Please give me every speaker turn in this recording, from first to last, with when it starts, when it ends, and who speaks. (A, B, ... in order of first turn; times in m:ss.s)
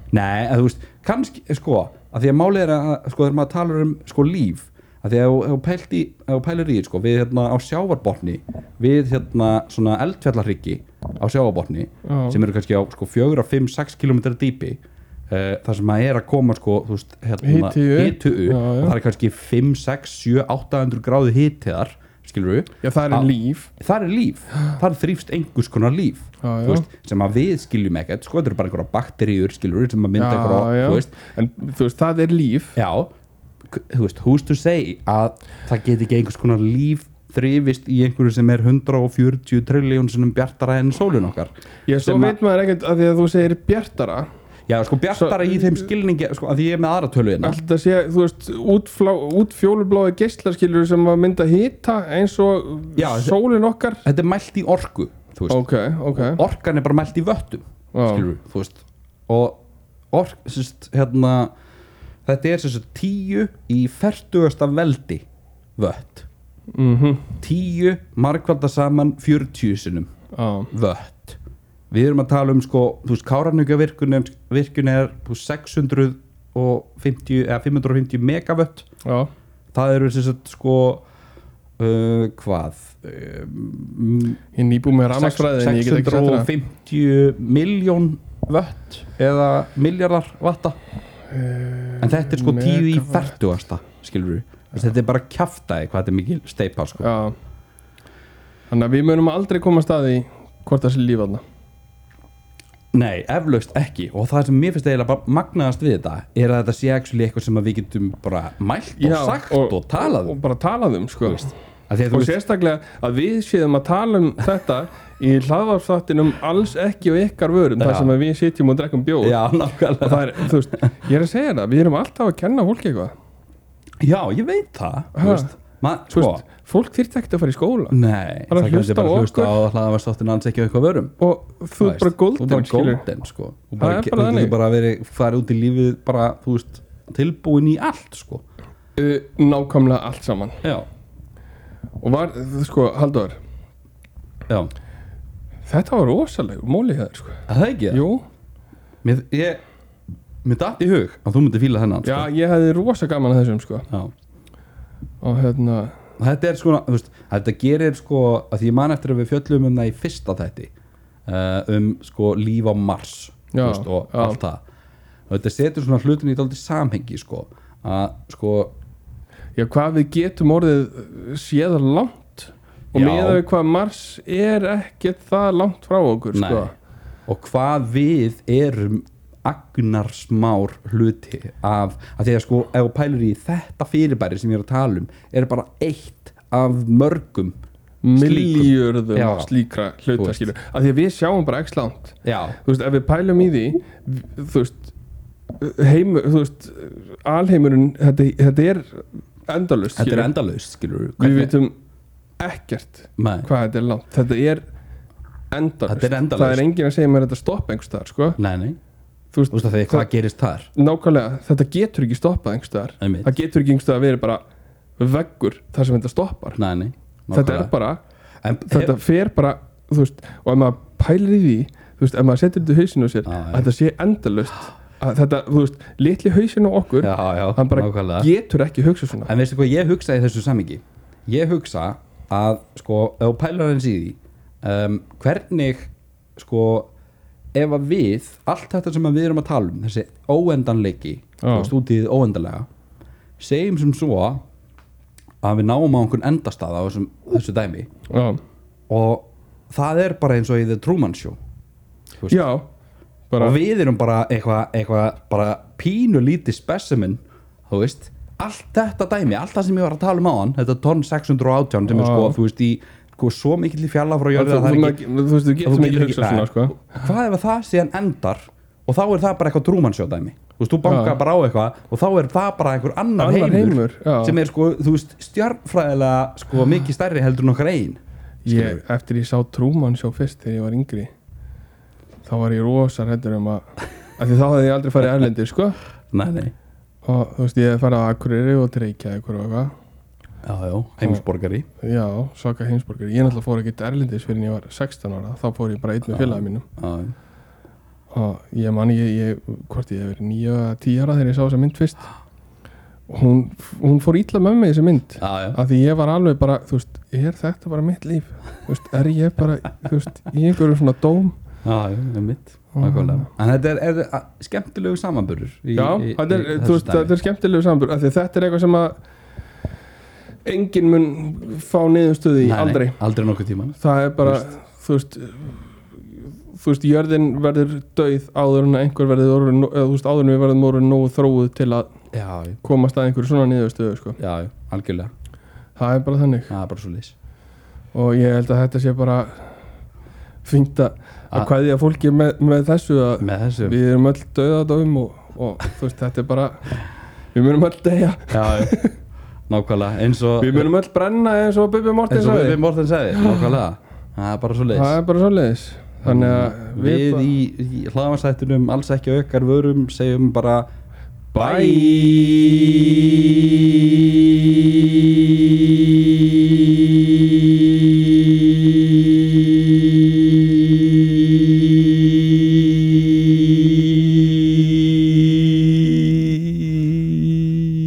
0:00.1-0:31.1 A
0:12.0-0:12.4 B
0:17.4-0:19.0 B
0:22.8-0:23.7 B
0:26.4-0:26.8 B
0:30.2-0:32.8 B
0:32.8-0:33.1 A
0:33.7-0:42.4 A
0:41.9-0:44.3 B
0:44.7-0:47.6 A
0:45.1-0:45.7 B
0:47.4-0:54.0 B
0:53.0-0:53.4 A
0:54.0-0:59.6 A
0:55.5-0:56.4 B
0:57.9-0:58.3 B
1:00.1-1:01.5 A
1:02.3-1:05.3 A
1:05.8-1:06.3 A
1:06.7-1:07.4 B
1:07.4-1:10.1 A
1:10.3-1:10.7 B
1:10.7-1:11.4 A
1:11.9-1:18.9 A
1:19.0-1:19.3 B
1:19.7-1:21.0 A
1:21.8-1:24.4 A
1:24.6-1:26.5 B
1:25.1-1:30.8 A
1:31.3-1:33.3 B
1:32.0-1:37.1 A
1:37.0-1:37.4 B
1:38.7-1:41.4 B
1:42.9-1:50.4 A
1:49.0-1:51.5 B
1:51.2-1:52.4 A
1:52.1-1:59.4 B
1:57.8-1:58.2 A
1:59.2-2:00.6 A
2:00.0-2:03.1 B
2:04.0-2:06.4 A
2:05.2-2:05.5 B
2:06.1-2:08.0 B
2:07.9-2:11.2 A
2:08.5-2:09.6 B
2:11.2-2:13.0 B
2:11.8-2:18.4 A
2:13.8-2:14.6 B
2:19.0-2:20.6 B
2:22.0-2:23.4 B
2:25.7-2:28.2 B
2:27.5-2:28.0 A
2:29.0-2:29.6 A
2:30.4-2:32.3 A
2:32.0-2:33.9 B
2:35.2-2:36.0 B
2:36.2-2:40.7 A
2:41.3-2:44.6 A
2:43.5-2:44.4 B
2:45.3-2:48.7 A
2:49.6-2:56.7 B
2:52.9-2:53.4 A
2:56.3-2:56.7 A
2:57.3-3:07.6 A
3:08.0-3:14.9 B
3:08.2-3:09.5 A
3:10.2-3:10.5 A
3:12.2-3:12.6 A
3:15.6-3:20.3 B
3:20.0-3:21.5 A
3:21.2-3:21.8 B
3:22.4-3:24.6 B
3:23.2-3:23.5 A
3:25.5-3:28.4 B
3:25.9-3:26.6 A
3:28.4-3:28.8 A
3:29.3-3:30.1 B
3:29.5-3:30.7 A
3:30.8-3:34.4 B
3:33.0-3:33.3 A
3:35.0-3:36.6 B
3:36.6-3:37.7 A
3:37.3-3:38.0 B
3:38.4-3:39.0 A
3:38.7-3:49.3 B
3:43.3-3:43.7 A
3:47.0-3:48.3 A
3:49.3-3:56.9 A
3:57.5-4:02.7 A
4:01.4-4:01.7 B
4:03.4-4:04.4 A
4:05.4-4:07.9 A
4:08.1-4:08.4 B
4:08.9-4:11.4 A
4:12.3-4:12.7 B
4:13.3-4:13.6 B
4:13.4-4:25.0 A
4:21.9-4:22.4 B
4:24.3-4:26.8 B
4:25.6-4:38.8 A
4:30.8-4:31.2 B
4:33.2-4:34.4 B
4:38.4-4:41.1 B
4:42.3-4:43.7 B
4:44.2-4:45.8 B
4:46.1-4:46.5 A
4:47.1-4:49.7 B
4:50.4-4:51.7 A
4:51.8-4:56.6 B
4:56.1-4:57.1 A
4:58.1-5:02.1 B
5:03.1-5:11.4 B
5:05.2-5:05.6 A
5:11.6-5:17.1 A
5:12.8-5:13.3 B
5:15.8-5:19.0 B
5:20.4-5:23.0 B
5:22.4-5:24.4 A
5:23.8-5:25.6 B
5:26.5-5:31.9 B
5:32.1-5:32.6 A
5:32.6-5:34.2 B
5:34.2-5:35.1 A
5:35.8-5:36.5 B
5:36.5-5:37.1 A
5:37.9-5:39.5 B
5:40.4-5:46.8 B
5:43.2-5:43.8 A
5:47.3-5:48.9 B
5:48.3-5:48.8 A
5:49.5-5:50.7 A
5:50.4-5:52.6 B
5:52.1-5:55.0 A
5:54.7-5:57.3 B
5:56.0-6:00.7 A
6:01.3-6:11.0 A
6:01.4-6:02.1 B
6:15.8-6:17.2 A